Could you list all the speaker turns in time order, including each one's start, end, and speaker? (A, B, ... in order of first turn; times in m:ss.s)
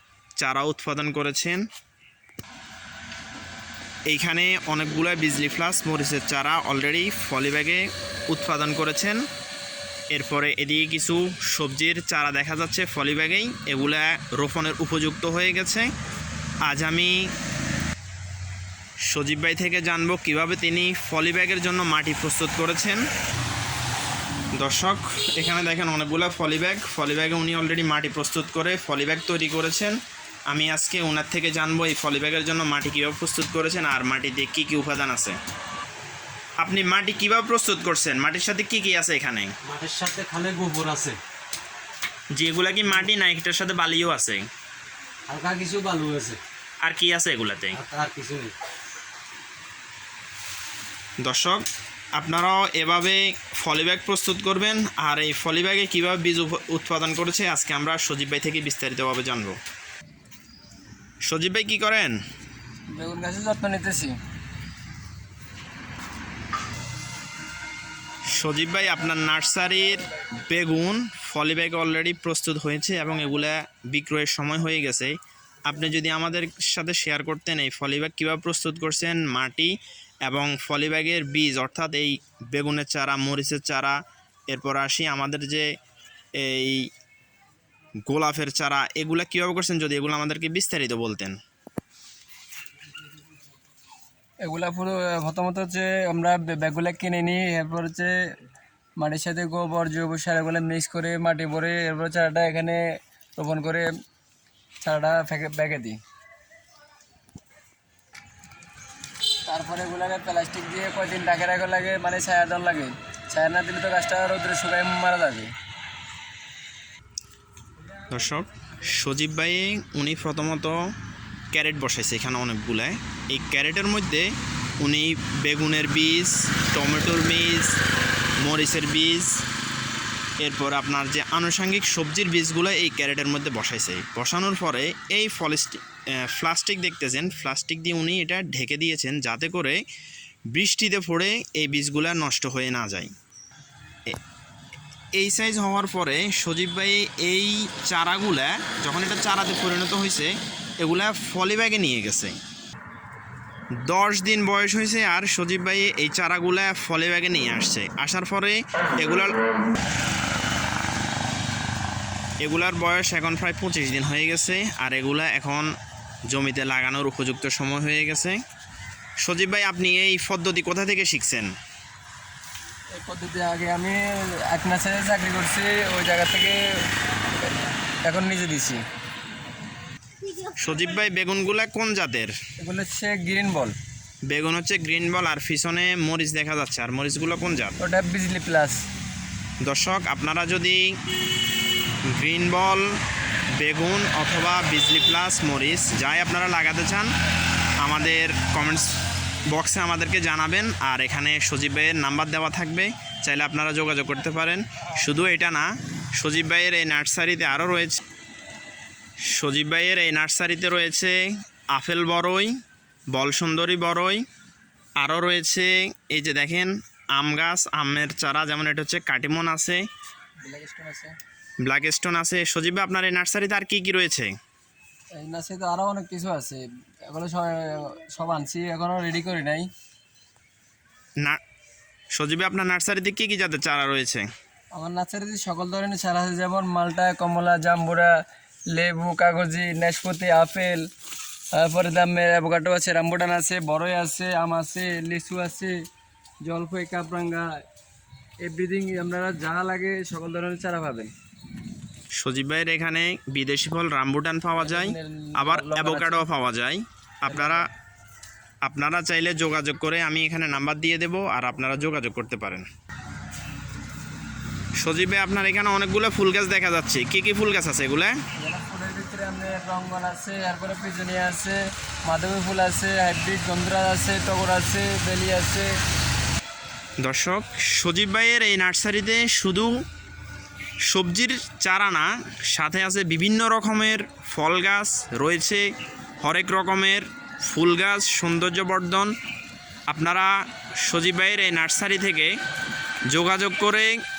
0:00.4-0:01.6 A
0:04.1-0:09.2 A
0:10.1-0:15.9 A
0:16.6-0:17.3 A
0:19.1-0:23.0 A
0:24.6-0:30.0 A
0:30.5-0:35.4 A
0:36.6-0:39.5 A
0:39.6-0:41.2 B
0:42.3-0:44.5 A
0:45.3-0:46.4 B
0:46.8-0:47.8 A
0:47.7-0:48.5 B
0:51.2-0:51.6 A
0:52.2-0:59.6 A
1:01.2-1:02.2 A
1:02.9-1:04.1 C
1:08.3-1:24.0 A
1:24.5-1:25.6 A
1:26.4-1:26.9 A
1:28.1-1:31.4 A
1:34.4-1:38.1 C
1:39.0-1:42.8 C
1:43.4-1:43.9 C
1:44.8-1:46.0 C
1:49.5-1:55.5 C
1:58.1-2:00.8 A
2:01.5-2:07.8 A
2:08.4-2:09.4 A
2:10.4-2:19.8 A
2:20.5-2:23.1 A
2:25.1-2:32.3 A
2:33.8-2:39.4 A
2:42.4-2:45.7 A
2:46.3-2:48.4 A
2:49.2-2:51.5 A
2:52.9-2:56.6 C
2:58.0-2:58.8 C
3:00.6-3:02.3 A
3:02.6-3:03.7 C
3:04.3-3:07.8 A
3:07.8-3:08.8 C
3:09.6-3:10.9 A
3:12.1-3:12.8 A
3:13.6-3:17.1 A
3:17.8-3:18.9 A
3:19.5-3:28.0 A
3:29.3-3:32.5 A
3:33.1-3:34.2 A
3:35.0-3:39.8 A
3:40.4-3:41.1 C
3:41.6-3:44.3 A
3:45.2-3:49.7 C
3:52.1-3:54.2 A
3:54.7-3:58.1 C
3:58.7-4:00.8 C
4:01.5-4:05.7 C
4:06.4-4:07.5 C
4:08.4-4:11.1 C
4:12.2-4:17.6 A
4:14.6-4:16.2 C
4:17.3-4:17.6 C
4:18.6-4:22.6 A
4:24.8-4:28.2 A
4:28.4-4:35.7 C
4:37.0-4:39.8 A
4:40.9-4:45.6 A
4:46.2-4:49.1 A
4:49.9-4:50.3 A
4:50.8-4:52.3 A
4:53.1-4:53.9 A